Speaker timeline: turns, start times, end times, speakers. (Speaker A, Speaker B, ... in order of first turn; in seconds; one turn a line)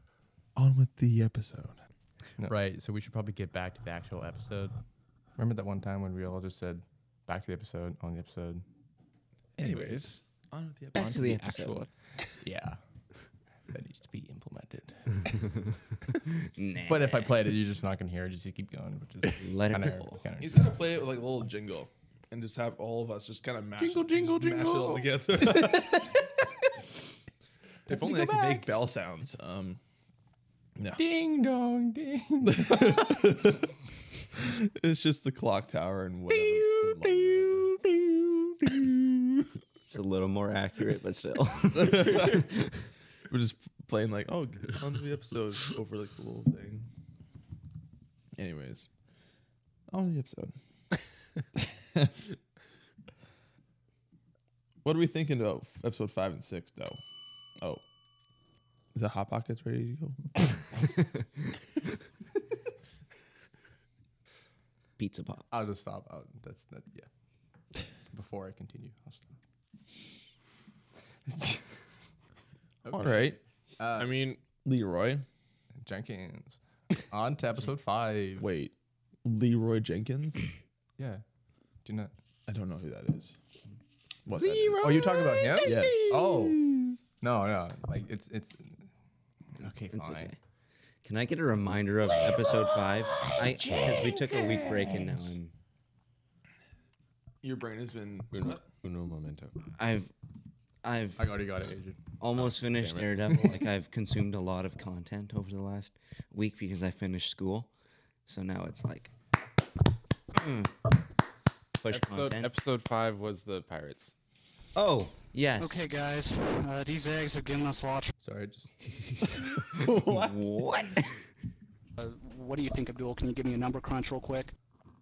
Speaker A: 0.6-1.8
Speaker B: 2.4-4.7
Speaker B: 5.4-8.6
Speaker A: 9.6-11.4
Speaker C: 9.6-10.2
Speaker D: 10.9-11.9
Speaker C: 10.9-12.0
Speaker B: 12.4-12.8
Speaker B: 13.7-15.5
Speaker D: 16.5-17.5
Speaker B: 16.9-20.7
Speaker D: 19.3-20.2
Speaker A: 20.4-26.2
Speaker B: 23.8-26.7
Speaker A: 27.9-29.8
Speaker B: 27.9-28.7
Speaker A: 30.8-31.0
Speaker B: 31.0-33.4
Speaker A: 32.4-33.7
Speaker A: 34.3-37.7
Speaker B: 36.3-38.7
Speaker D: 39.9-42.8
Speaker A: 41.7-42.5
Speaker A: 43.3-46.9
Speaker A: 48.4-48.9
Speaker A: 49.9-50.5
Speaker A: 51.5-52.3
Speaker A: 54.8-57.0
Speaker A: 58.9-60.4
Speaker D: 65.0-65.5
Speaker B: 65.5-67.1
Speaker B: 68.1-69.3
Speaker B: 71.3-71.6
Speaker B: 72.8-74.1
Speaker A: 72.9-73.4
Speaker C: 74.0-74.4
Speaker A: 74.6-75.2
Speaker B: 75.8-78.5
Speaker A: 78.4-80.4
Speaker B: 81.0-81.2
Speaker B: 81.8-82.1
Speaker A: 82.5-83.4
Speaker A: 84.3-86.2
Speaker B: 84.8-86.6
Speaker D: 85.8-86.1
Speaker B: 87.2-88.8
Speaker B: 89.6-90.3
Speaker D: 89.9-90.4
Speaker D: 91.0-95.5
Speaker B: 94.9-95.3
Speaker A: 97.4-98.6
Speaker C: 98.3-99.5
Speaker D: 99.7-100.1
Speaker D: 100.8-101.3
Speaker B: 101.2-102.0
Speaker D: 102.2-107.7
Speaker C: 102.7-103.3
Speaker D: 108.3-109.1
Speaker D: 110.3-110.9
Speaker D: 111.8-112.5
Speaker C: 111.9-114.1
Speaker D: 114.8-115.8
Speaker E: 115.6-118.1
Speaker B: 118.2-119.3
Speaker A: 119.3-120.9
Speaker D: 119.8-121.3
Speaker E: 122.0-124.5